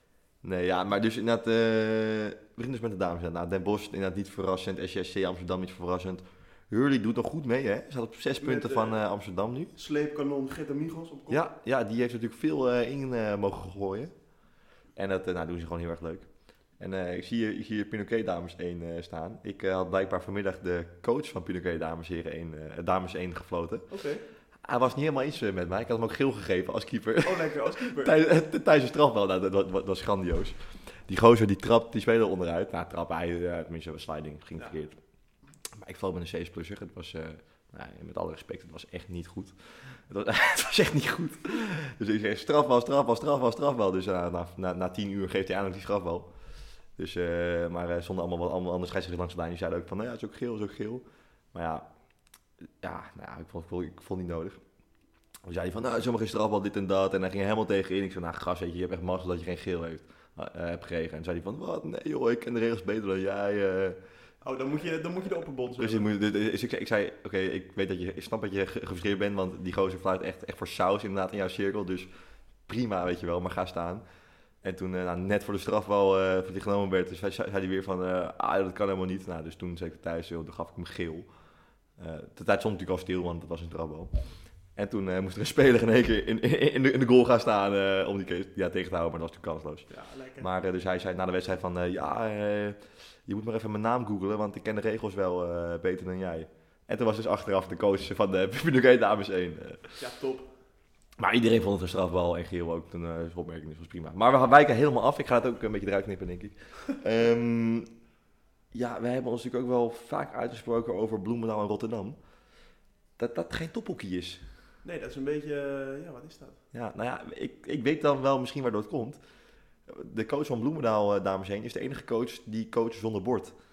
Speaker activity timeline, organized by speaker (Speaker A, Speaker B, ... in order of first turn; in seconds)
Speaker A: 0.4-9.7, 11.3-14.2, 14.9-23.9, 24.6-35.0, 35.7-46.3, 47.0-51.9, 52.8-54.6, 55.5-64.0, 65.8-72.1, 72.7-74.0, 74.6-81.3, 82.0-84.1, 84.8-100.0, 101.2-107.9, 108.7-112.2, 113.2-114.4, 116.7-119.2, 119.9-123.5
Speaker B: 8.4-9.0, 9.8-11.4, 23.9-24.2, 27.2-28.2, 64.4-66.1, 89.9-90.5, 100.0-100.5, 114.8-116.6